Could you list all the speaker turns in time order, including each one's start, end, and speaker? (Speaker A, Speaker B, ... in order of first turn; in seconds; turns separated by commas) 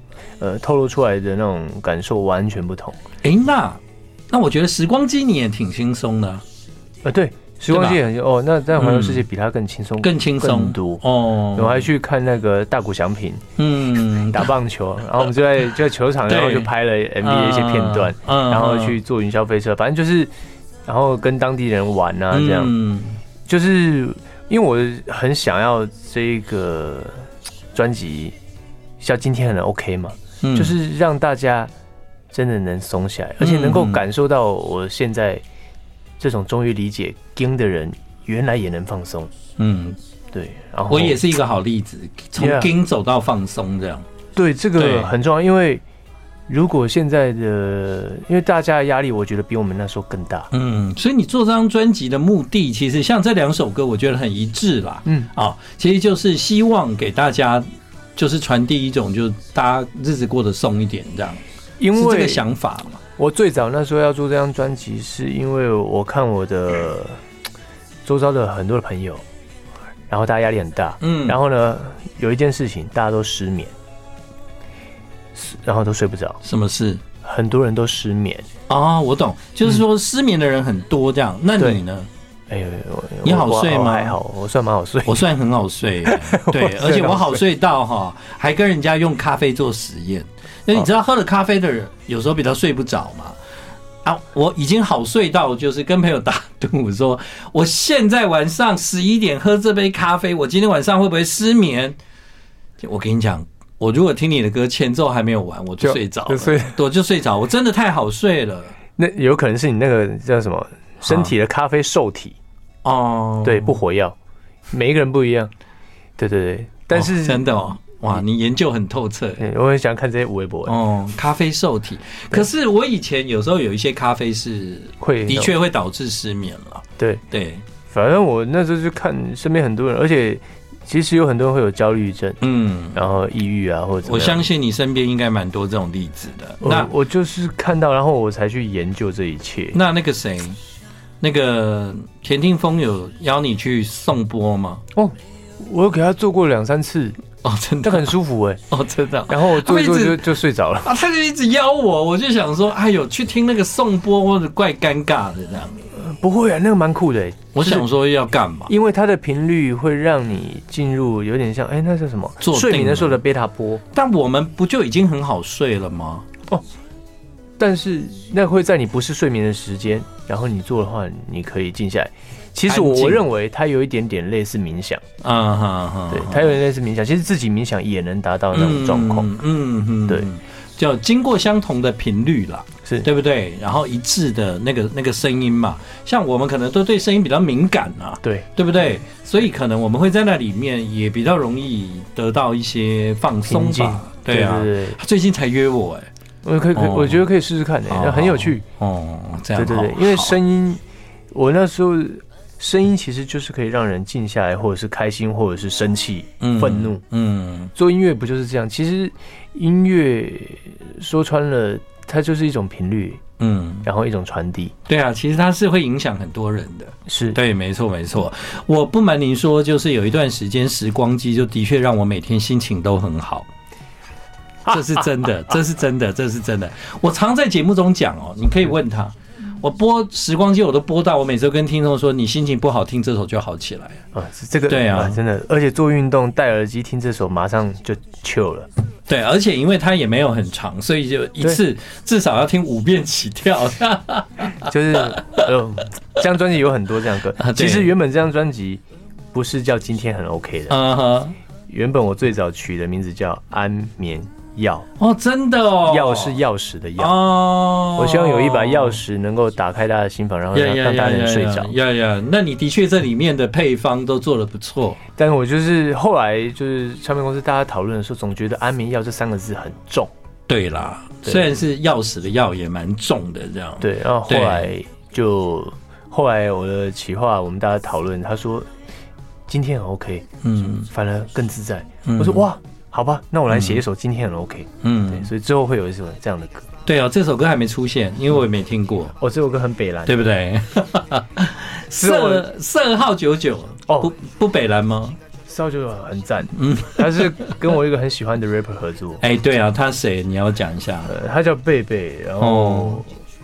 Speaker A: 0.4-3.0, Speaker B: 3.2-6.4, Speaker A: 7.0-11.0, Speaker B: 7.7-8.0, Speaker B: 8.8-9.2, Speaker B: 10.0-11.9, Speaker A: 11.6-13.4, Speaker B: 13.6-14.5, Speaker A: 14.3-20.3, Speaker B: 16.3-16.7, Speaker B: 17.2-19.0, Speaker A: 20.9-22.7, Speaker B: 22.3-23.2, Speaker A: 23.5-28.4, Speaker A: 29.0-31.7, Speaker B: 30.4-30.8, Speaker A: 32.3-35.4, Speaker B: 33.4-34.0, Speaker A: 36.2-39.3, Speaker B: 39.6-40.0, Speaker A: 40.3-41.2, Speaker B: 40.9-44.1, Speaker A: 42.4-42.7, Speaker A: 44.4-45.8, Speaker B: 44.8-45.1, Speaker A: 46.5-50.5, Speaker B: 50.5-61.4, Speaker A: 61.8-62.4, Speaker B: 62.0-63.0, Speaker A: 63.2-67.2, Speaker A: 68.0-69.2, Speaker A: 70.1-73.7, Speaker B: 71.0-71.4, Speaker A: 75.3-76.4, Speaker B: 76.4-77.0, Speaker A: 77.2-78.5, Speaker B: 78.7-82.1, Speaker A: 82.5-85.3, Speaker B: 83.2-84.2, Speaker B: 85.1-93.4, Speaker A: 86.1-87.4, Speaker B: 94.0-102.0, Speaker B: 102.8-108.7, Speaker A: 105.8-106.8, Speaker A: 109.0-112.4, Speaker B: 112.8-113.8, Speaker A: 113.4-114.2, Speaker A: 114.7-115.5, Speaker A: 116.2-117.5, Speaker B: 116.9-119.4, Speaker A: 119.4-120.7, Speaker B: 120.7-127.6, Speaker A: 125.0-125.5, Speaker A: 127.9-132.4, Speaker B: 132.4-133.0, Speaker A: 132.9-134.5, Speaker B: 134.1-136.9, Speaker A: 136.6-139.8, Speaker B: 139.7-140.6, Speaker B: 141.2-144.8, Speaker A: 144.9-147.2, Speaker B: 147.4-148.2, Speaker A: 147.8-148.6, Speaker B: 148.7-155.9, Speaker A: 149.3-150.9, Speaker A: 155.9-157.9, Speaker B: 157.5-158.7, Speaker A: 158.7-163.8, Speaker B: 162.4-163.2, Speaker B: 163.9-166.3, Speaker A: 167.6-175.0, Speaker B: 172.7-173.2, Speaker B: 175.2-176.6, Speaker A: 176.1-179.3, Speaker B: 178.5-196.1, Speaker A: 188.2-188.5, Speaker A: 193.5-195.0, Speaker A: 196.4-198.6, Speaker B: 196.8-197.2, Speaker B: 197.9-200.3, Speaker A: 199.6-200.8, Speaker A: 201.3-207.0, Speaker B: 206.4-207.7, Speaker A: 207.8-213.2, Speaker B: 213.4-213.9, Speaker A: 213.8-214.7, Speaker B: 214.9-223.5, Speaker A: 217.1-217.4, Speaker A: 224.7-225.1, Speaker B: 224.7-234.0, Speaker A: 234.1-238.7, Speaker B: 234.7-235.2, Speaker B: 239.1-245.4, Speaker A: 244.6-250.7, Speaker B: 247.4-247.9, Speaker B: 250.7-251.4, Speaker A: 251.7-254.9, Speaker B: 255.0-256.4, Speaker A: 255.9-257.2, Speaker B: 257.0-259.0, Speaker A: 258.0-261.7, Speaker B: 260.5-265.0, Speaker A: 265.2-270.1, Speaker B: 270.5-274.7, Speaker A: 273.8-278.7, Speaker A: 279.5-286.7, Speaker B: 280.4-280.9, Speaker B: 282.1-282.5, Speaker B: 283.5-283.8, Speaker B: 284.8-285.3, Speaker B: 286.9-289.2, Speaker A: 289.2-290.2, Speaker B: 290.1-295.2, Speaker A: 292.0-292.5, Speaker A: 295.5-299.2, Speaker B: 296.6-297.5, Speaker B: 299.2-301.1, Speaker A: 301.1-303.1, Speaker B: 302.4-303.0